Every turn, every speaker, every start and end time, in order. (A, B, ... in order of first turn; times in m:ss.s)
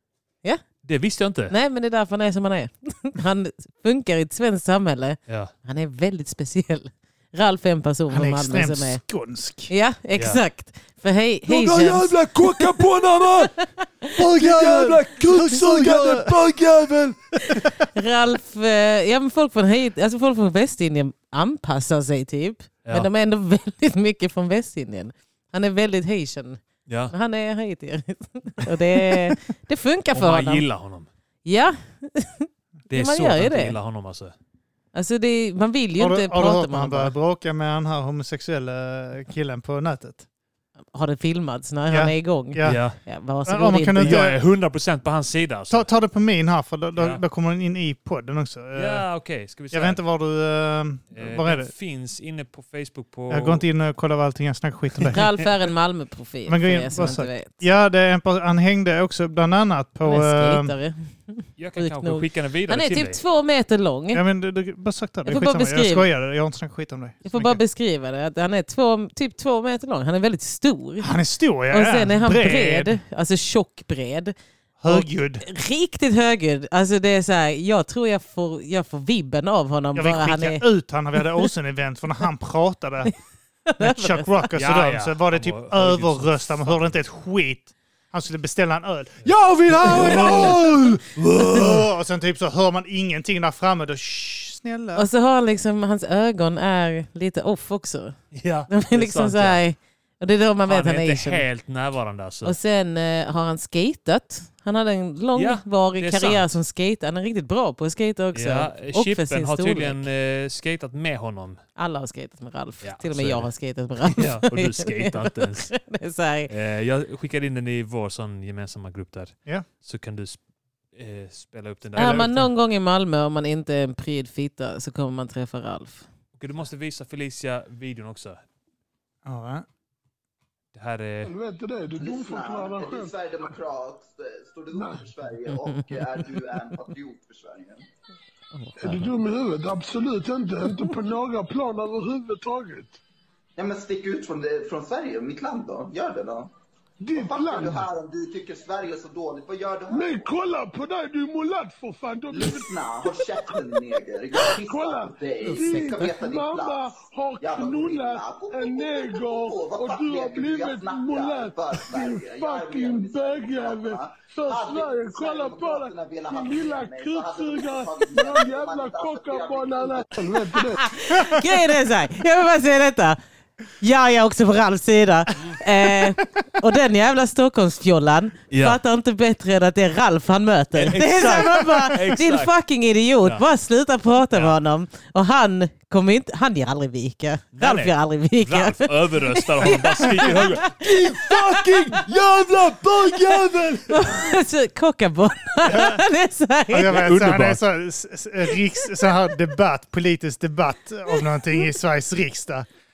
0:00.8-0:01.5 A
0:01.5-0:09.0 B
0:08.1-0:09.7 C
0:09.7-0:12.8 B
0:11.5-0:13.6 A
0:13.4-0:14.2 B
0:14.2-0:16.4 C
0:14.2-0:17.6 A
0:17.4-0:30.6 B
0:26.9-0:27.1 A
0:30.1-0:31.1 A
0:31.4-0:33.7 B
0:32.9-0:34.3 A
0:34.9-0:37.1 B
0:36.0-0:40.2 C
0:40.9-0:44.2 B
0:41.9-0:42.8 C
0:42.6-0:43.0 A
0:43.5-0:44.4 C
0:44.0-0:45.9 A
0:45.7-0:49.0 C
0:47.0-0:47.2 A
0:48.8-0:50.0 A
0:49.7-0:51.7 C
0:51.1-0:53.6 A
0:53.3-0:55.2 C
0:55.1-0:57.6 B
0:56.5-1:00.7 C
1:00.0-1:04.2 B
1:01.6-1:03.2 A
1:04.1-1:07.6 C
1:05.3-1:06.1 B
1:07.2-1:11.1 B
1:11.0-1:13.0 C
1:11.7-1:14.3 B
1:14.8-1:15.4 C
1:14.9-1:20.7 B
1:20.0-1:23.1 C
1:23.7-1:24.3 B
1:23.8-1:35.1 C
1:24.6-1:26.9 A
1:29.8-1:30.6 A
1:29.9-1:30.6 B
1:31.2-1:31.8 A
1:35.0-1:38.2 B
1:38.3-1:39.6 A
1:38.7-1:41.4 B
1:40.7-1:42.6 A
1:42.4-1:50.0 B
1:45.4-1:46.6 A
1:48.4-1:51.6 A
1:51.8-1:56.5 B
1:52.8-1:53.5 A
1:54.0-1:55.7 A
1:56.5-2:00.4 A
2:00.9-2:02.4 A
2:02.0-2:02.5 C
2:02.0-2:06.1 B
2:06.4-2:08.4 A
2:09.2-2:09.7 C
2:10.7-2:11.3 A
2:11.2-2:13.2 D
2:12.0-2:17.8 E
2:14.7-2:15.1 D
2:15.5-2:16.0 B
2:18.5-2:19.0 B
2:18.8-2:23.0 D
2:23.6-2:26.5 E
2:27.0-2:27.9 D
2:27.1-2:30.3 E
2:29.9-2:33.8 D
2:32.3-2:50.7 E
2:34.3-2:50.9 D
2:35.6-2:35.8 B
2:50.7-2:53.2 B
2:51.1-2:51.5 C
2:53.8-3:12.0 B
2:58.5-2:58.8 A
3:00.8-3:02.5 A
3:07.5-3:14.2 A
3:13.1-3:17.1 B
3:15.7-3:16.0 C
3:16.7-3:22.7 C
3:16.9-3:17.6 A